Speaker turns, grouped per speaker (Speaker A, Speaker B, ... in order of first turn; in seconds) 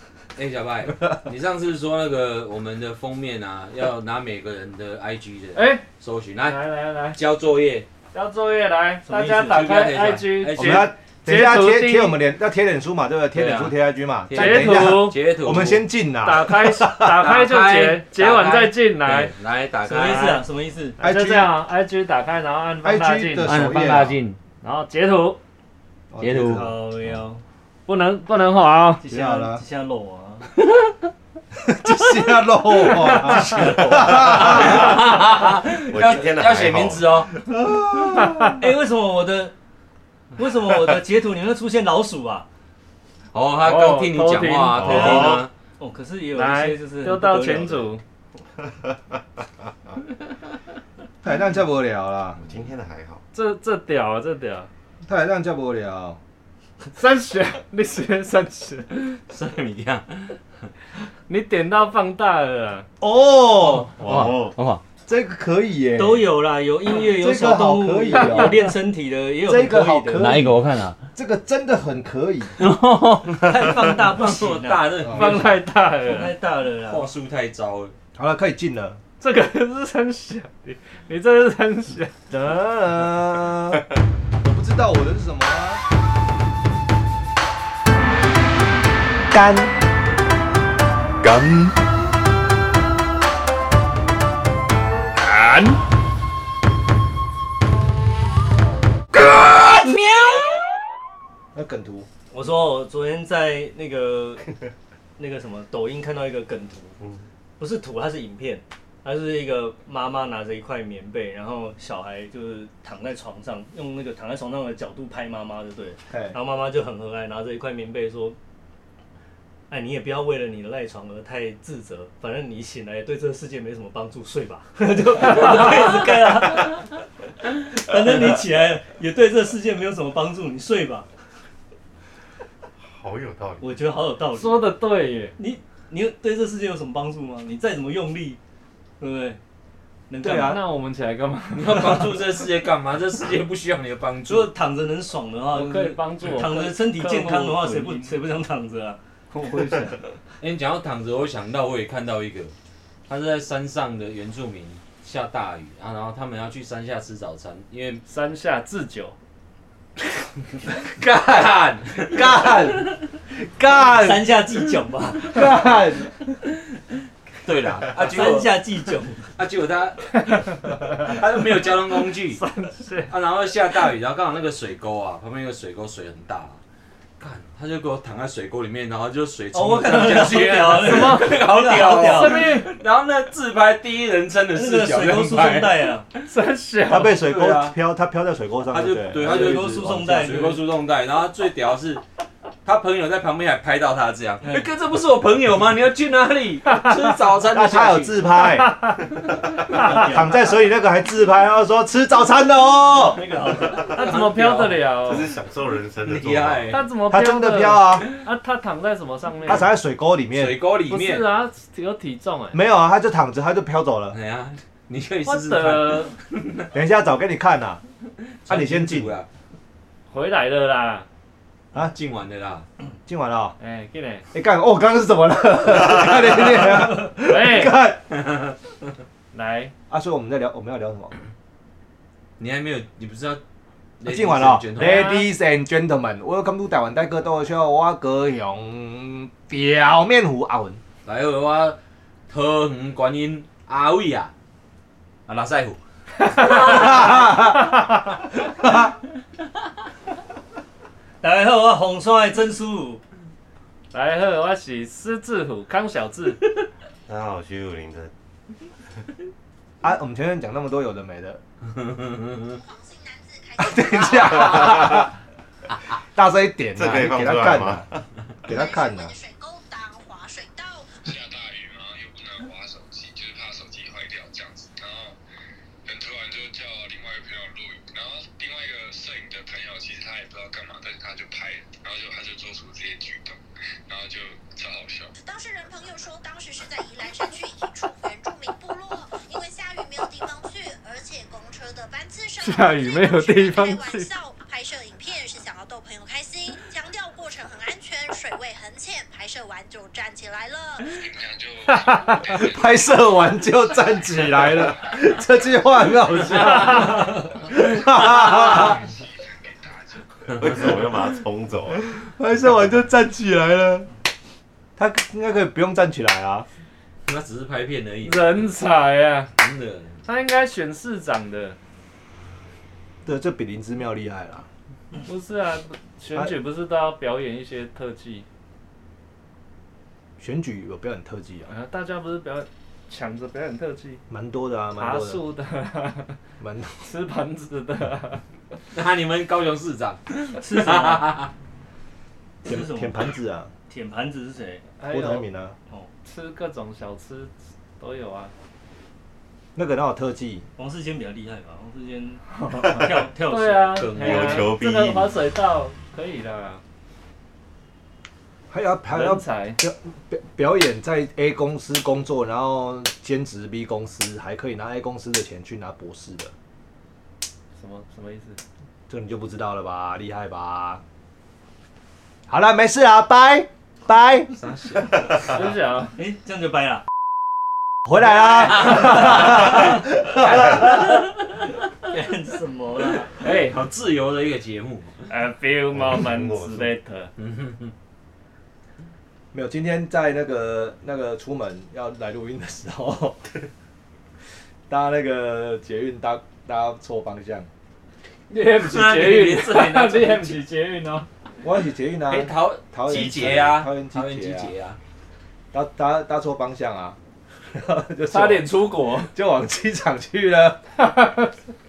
Speaker A: 0.3-7.9, 9.4-10.9, 13.3-13.7, 14.3-15.9, 17.2-20.4, 23.4-24.4, 26.2-26.7, 34.1-37.3, 43.3-45.5, 59.3-60.4, 64.0-64.8, 70.2-71.0, 72.6-75.6, 76.9-78.0, 99.1-100.6, 125.5-125.8, 141.5-144.5, 150.4-152.5, 153.1-158.0, 160.8-163.0, 167.4-168.6, 169.4-170.3, 170.9-172.4, 173.1-176.6, 177.2-185.9, 187.2-187.8, 188.7-192.0, 192.6-198.2, 203.8-205.2, 206.1-206.8, 210.3-211.2, 214.1-216.7, 218.4-219.3, 221.7-222.7, 232.4-233.4, 234.0-235.1, 241.1-241.8, 242.3-244.3, 245.3-245.8, 246.4-247.2, 261.8-262.4, 310.3-311.0, 317.1-318.5, 319.4-320.0, 338.7-341.3, 353.8-354.5, 374.4-375.2, 378.6-379.5, 380.2-381.2, 383.2-385.1, 387.2-387.7, 398.6-400.4, 402.1-404.8
Speaker B: 5.5-5.8, 6.4-7.2, 8.1-12.2, 14.3-15.2, 16.2-19.3, 21.0-23.6, 24.6-25.4, 27.9-29.1, 38.2-38.5, 43.6-45.3, 46.4-48.0, 53.3-54.7, 57.0-59.2, 61.3-62.9, 68.2-68.6, 75.1-76.3, 79.2-82.1, 134.3-135.4, 140.4-142.2, 145.5-148.2, 149.5-149.9, 158.1-159.2, 170.3-171.1, 172.3-173.1, 180.8-182.8, 186.3-187.2, 198.4-200.1, 203.8-205.3, 206.7-209.7, 210.9-212.6, 215.2-216.1, 220.1-221.1, 223.6-224.2, 227.1-227.8, 229.3-229.7, 234.8-235.2, 246.2-247.0, 253.9-256.4, 292.4-294.1, 318.0-319.3, 320.1-321.6, 325.0-328.2, 331.5-334.0, 334.8-336.2, 336.8-338.2, 344.8-345.2, 346.0-348.3, 352.5-356.6, 358.9-359.6, 367.6-368.4, 375.3-376.0, 383.2-383.6, 385.1-387.1, 398.3-401.1, 408.1-409.1, 410.8-411.3
Speaker C: 9.1-9.7, 19.9-21.0, 26.5-27.4, 29.0-30.5, 33.0-34.8, 38.6-39.5, 40.4-42.5, 44.8-47.9, 66.0-70.3, 73.4-77.1, 102.3-104.4, 105.2-107.0, 107.6-118.4, 119.7-126.9, 127.6-131.1, 133.6-134.7, 135.4-138.4, 139.0-139.4, 140.1-140.6, 144.3-150.0, 163.8-165.6, 168.0-169.3, 179.5-182.5, 184.5-186.1, 189.2-190.6, 194.4-194.7, 199.7-200.4, 202.9-203.9, 251.2-253.0, 340.4-341.1, 342.4-343.0, 343.7-344.7, 350.6-354.0, 376.0-376.8, 381.8-383.1
Speaker D: 10.6-17.2, 21.0-21.5, 22.8-24.2, 26.1-26.8, 29.1-29.6, 31.6-35.0, 37.5-38.6, 51.2-52.4, 55.0-56.2, 63.0-64.3, 65.1-66.3, 66.9-68.6, 69.5-70.6, 71.1-72.6, 75.0-75.3, 78.1-79.0, 82.3-83.8, 84.4-85.8, 89.3-89.7, 101.5-102.1, 116.1-116.3, 140.2-140.6, 162.0-164.3, 165.2-166.1, 186.9-189.6, 197.5-198.8, 199.8-203.2, 207.1-208.1, 209.4-210.6, 212.5-214.2, 216.7-217.8, 218.5-219.2, 223.1-223.6, 224.3-228.0, 229.9-231.2, 234.1-240.8, 246.5-247.8, 248.6-248.9, 259.8-261.4, 263.6-265.1, 266.1-267.9, 268.5-269.1, 302.3-308.9, 311.7-313.9, 314.8-316.5, 323.1-324.5, 330.2-331.5, 334.1-335.2, 336.4-336.8, 342.4-343.5, 344.9-345.6, 349.5-350.5, 358.5-366.3, 368.9-370.8, 372.3-374.3, 377.9-381.1, 389.3-393.2, 394.7-397.5, 401.4-404.5, 405.5-407.0, 407.5-410.6
Speaker E: 35.9-37.4, 44.8-45.5, 52.4-53.2, 64.0-64.6, 132.8-133.8, 205.0-206.8, 257.1-258.1, 266.8-268.0, 310.4-311.8, 353.9-355.1, 385.7-386.7
Speaker F: 262.5-265.1, 268.5-271.0, 285.2-301.0
Speaker G: 271.0-275.2, 275.9-285.1, 300.9-303.2, 304.1-304.7, 308.1-310.1